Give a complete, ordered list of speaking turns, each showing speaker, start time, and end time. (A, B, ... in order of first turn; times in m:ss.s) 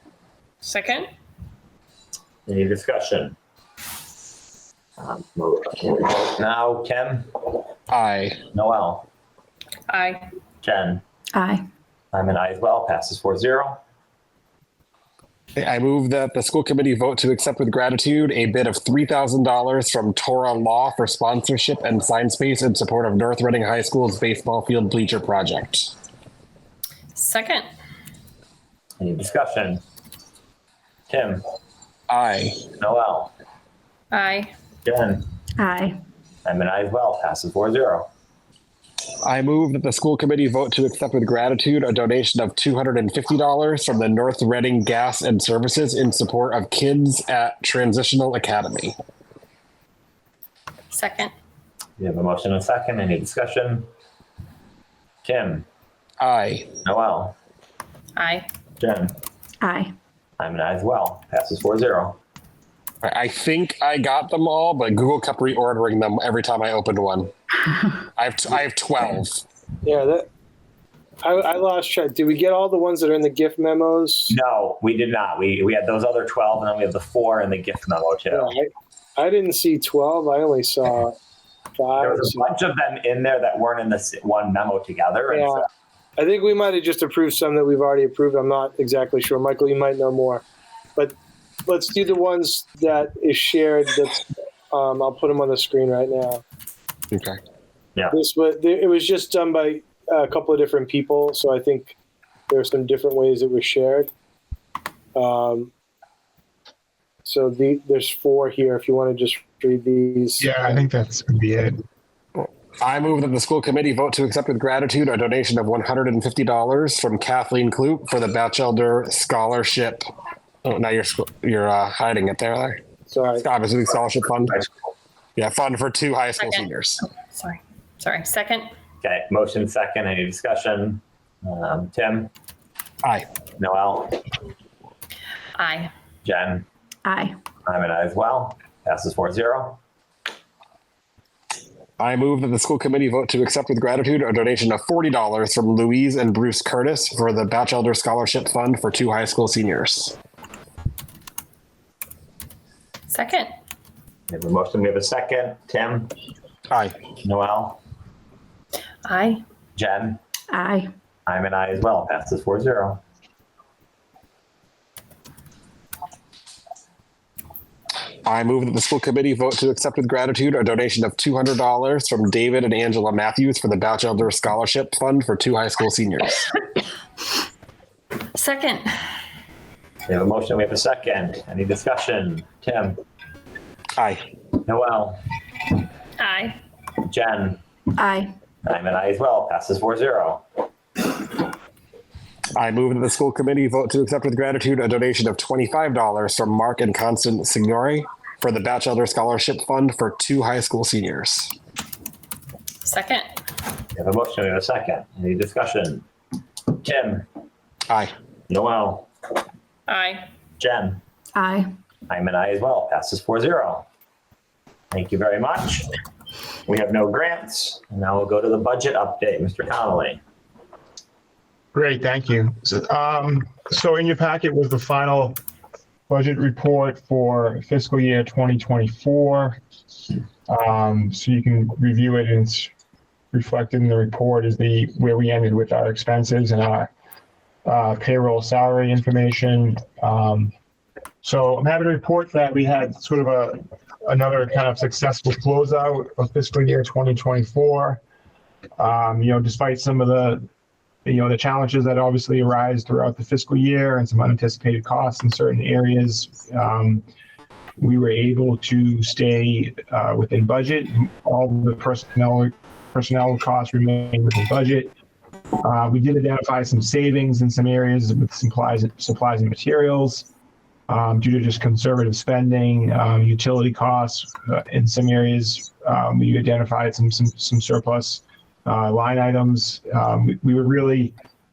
0:00.6-0:01.1 A
0:02.5-0:03.4 B
0:05.0-0:07.6 B
0:07.9-0:08.4 C
0:08.5-0:09.1 B
0:09.9-0:10.3 A
0:10.6-0:11.0 B
0:11.3-0:11.7 D
0:12.1-0:13.8 B
0:15.6-0:25.9 C
0:27.2-0:27.7 A
0:29.0-0:29.8 B
0:31.1-0:31.4 B
0:32.1-0:32.6 C
0:32.8-0:33.3 B
0:34.1-0:34.5 A
0:34.8-0:35.3 B
0:35.6-0:36.0 D
0:36.4-0:38.1 B
0:39.2-0:49.0 C
0:50.9-0:51.3 A
0:52.0-0:53.9 B
0:55.2-0:55.7 B
0:56.2-0:56.7 C
0:56.8-0:57.4 B
0:58.2-0:58.5 A
0:58.8-0:59.1 B
0:59.6-1:00.0 D
1:00.4-1:02.2 B
1:03.0-1:07.3 C
1:08.2-1:09.4 C
1:09.8-1:10.3 E
1:11.2-1:14.4 E
1:14.3-1:18.5 B
1:18.3-1:21.2 E
1:21.8-1:22.5 E
1:22.0-1:25.6 B
1:25.3-1:25.7 E
1:26.2-1:30.4 E
1:31.7-1:36.4 E
1:37.1-1:37.4 C
1:38.1-1:41.9 E
1:42.5-1:44.1 E
1:45.2-1:45.7 E
1:47.2-1:50.8 E
1:50.4-1:51.8 F
1:52.4-2:00.0 C
2:00.6-2:02.8 C
2:03.1-2:03.5 E
2:03.4-2:04.6 C
2:05.4-2:07.0 C
2:06.4-2:08.7 A
2:09.0-2:12.3 B
2:13.6-2:14.2 B
2:15.6-2:15.9 A
2:16.2-2:16.7 B
2:17.0-2:17.4 D
2:17.7-2:19.8 B
2:22.0-2:30.2 C
2:33.1-2:33.5 A
2:34.3-2:36.2 B
2:36.7-2:37.0 C
2:37.2-2:37.8 B
2:39.0-2:39.4 A
2:39.8-2:40.2 B
2:40.5-2:40.9 D
2:41.3-2:43.0 B
2:48.2-2:56.5 C
2:58.4-2:58.9 A
3:00.1-3:03.0 B
3:04.0-3:04.2 C
3:04.6-3:05.2 B
3:06.2-3:06.6 A
3:07.1-3:07.6 B
3:08.0-3:08.4 D
3:08.7-3:10.6 B
3:12.6-3:21.5 C
3:22.8-3:23.3 A
3:24.0-3:26.1 B
3:26.7-3:27.3 B
3:28.5-3:29.1 B
3:29.9-3:30.3 A
3:30.6-3:31.0 B
3:31.4-3:31.7 D
3:32.1-3:33.9 B
3:34.9-3:35.9 B
3:36.7-3:40.2 B
3:41.7-3:45.4 F
3:46.1-3:49.6 F
3:50.5-3:52.7 F
3:53.3-3:56.9 F
3:57.6-4:00.5 F
4:01.2-4:08.0 F
4:08.8-4:10.5 F
4:11.0-4:17.0 F
4:17.8-4:24.9 F
4:25.6-4:30.3 F
4:30.9-4:41.1 F